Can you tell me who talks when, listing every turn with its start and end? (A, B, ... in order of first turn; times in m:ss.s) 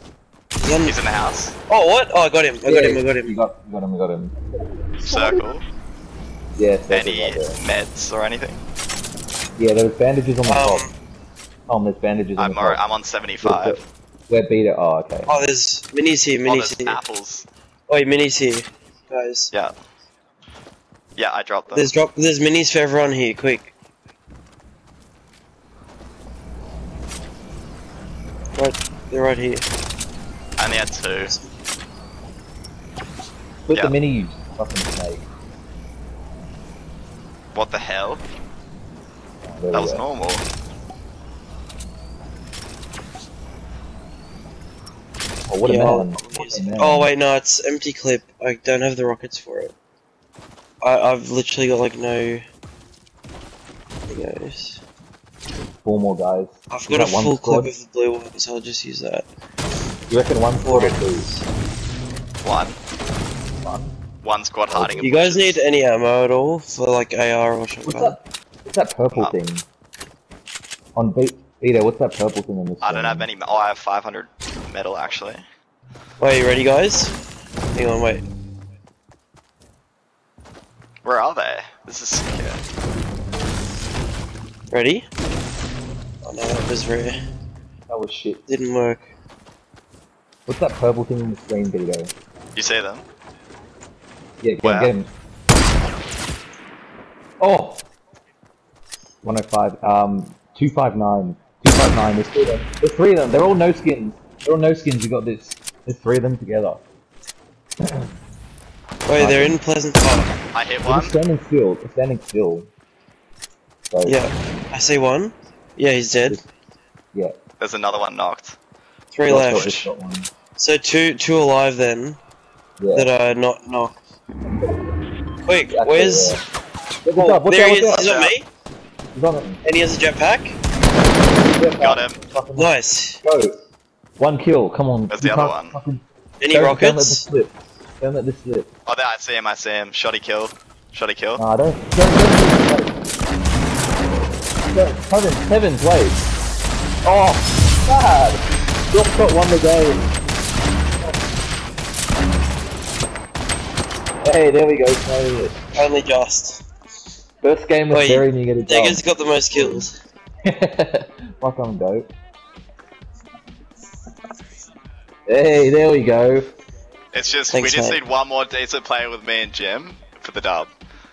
0:00.6-0:01.0 A
0:00.8-0:01.6 B
0:01.7-0:03.3 A
0:02.6-0:04.3 C
0:05.0-0:05.4 C
0:05.0-0:05.6 B
0:06.6-0:07.6 C
0:06.9-0:08.6 B
0:09.6-0:10.9 C
0:10.4-0:10.9 A
0:11.7-0:12.8 C
0:12.4-0:13.8 B
0:13.4-0:15.4 C
0:15.3-0:17.0 A
0:16.4-0:17.5 B
0:17.9-0:19.5 A
0:21.2-0:21.9 B
0:21.7-0:23.7 A
0:28.6-0:29.6 A
0:30.6-0:31.4 B
0:31.2-0:31.5 A
0:33.7-0:35.3 C
0:33.7-0:34.0 B
0:37.5-0:38.2 B
0:39.4-0:40.0 C
0:39.7-0:40.4 B
0:45.5-0:47.1 C
0:45.6-0:49.7 A
0:50.8-0:52.4 A
0:54.1-0:54.8 A
0:55.8-0:57.7 C
0:56.7-0:59.3 A
1:00.1-1:01.3 C
1:00.6-1:01.5 A
1:02.4-1:02.8 B
1:03.6-1:03.9 C
1:04.2-1:05.6 B
1:04.7-1:05.2 C
1:05.0-1:08.2 A
1:07.8-1:09.6 C
1:10.9-1:13.3 C
1:12.8-1:15.4 B
1:16.2-1:17.1 A
1:17.7-1:18.2 A
1:21.0-1:22.6 B
1:24.7-1:25.1 A
1:26.2-1:27.2 A
1:27.9-1:28.4 C
1:28.5-1:29.1 A
1:30.5-1:32.1 C
1:32.6-1:33.0 B
1:34.4-1:35.1 C
1:34.6-1:34.9 B
1:37.4-1:37.9 C
1:39.2-1:46.8 C
1:47.8-1:48.1 C
1:49.0-1:50.4 A
1:49.2-1:49.6 C
1:50.5-1:51.2 B
1:50.8-1:52.7 C
1:53.9-1:54.2 C
1:54.0-1:56.4 A
1:57.6-1:58.6 B
1:59.1-1:59.9 A
1:59.3-2:00.3 C
1:59.3-1:59.9 B
2:00.6-2:02.2 A
2:02.8-2:03.1 C
2:02.9-2:04.0 A
2:04.4-2:05.0 C
2:05.4-2:06.4 A
2:05.7-2:06.4 C
2:07.0-2:08.1 C
2:07.2-2:08.5 A
2:07.9-2:08.3 B
2:09.1-2:09.6 C
2:09.6-2:10.6 A
2:11.4-2:13.6 C
2:11.8-2:12.2 B
2:12.6-2:13.2 A
2:14.2-2:18.7 C
2:15.1-2:15.8 B
2:16.4-2:17.2 A
2:18.8-2:21.4 B
2:21.4-2:23.0 C
2:24.7-2:26.2 C
2:27.0-2:30.1 C
2:34.2-2:35.6 C
2:35.7-2:36.6 A
2:37.4-2:39.9 C
2:37.9-2:39.9 A
2:40.4-2:42.1 C
2:45.3-2:46.5 C
2:47.1-2:50.7 B
2:47.5-2:48.0 A